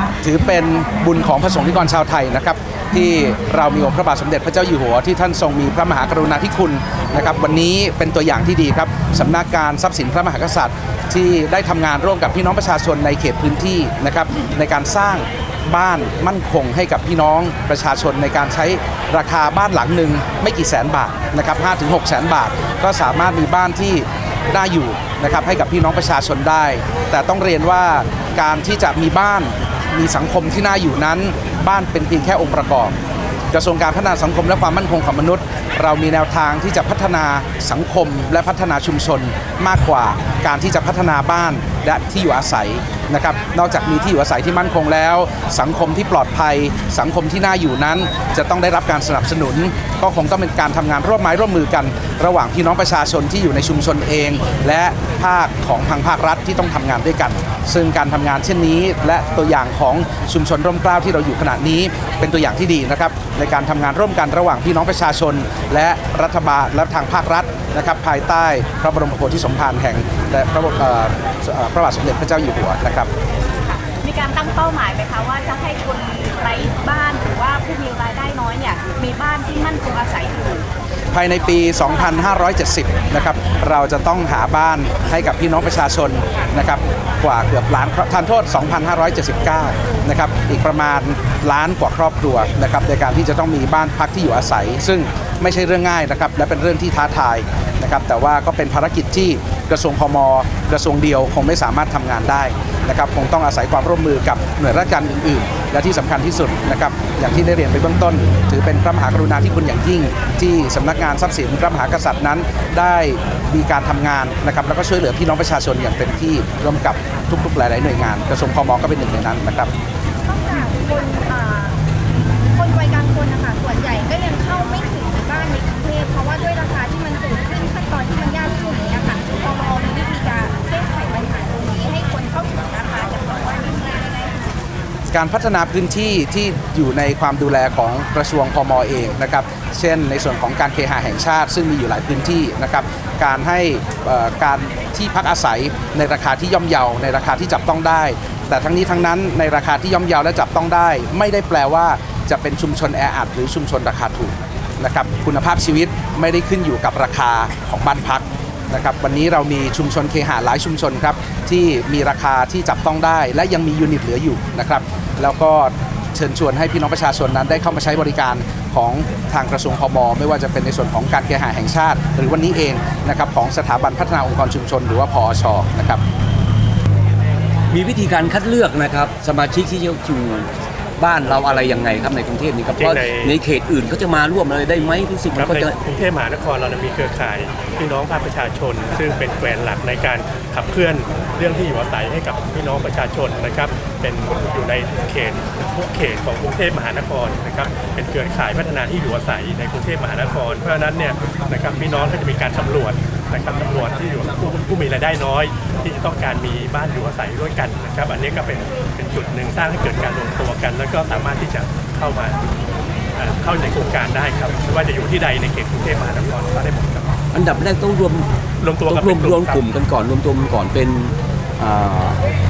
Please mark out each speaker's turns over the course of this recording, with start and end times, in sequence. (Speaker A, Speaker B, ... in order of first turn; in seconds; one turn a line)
Speaker A: 0.2-33.0
Speaker A: 33.5-73.1
Speaker B: 73.6-80.7
Speaker A: 81.1-119.7
Speaker C: 120.2-121.8
Speaker C: 122.5-134.5
Speaker A: 135.1-176.0
Speaker D: 177.7-185.8
Speaker E: 182.7-183.3
Speaker E: 185.3-212.4
Speaker E: 213.2-217.2
Speaker D: 217.3-218.3
Speaker E: 218.6-219.6
Speaker D: 218.8-222.2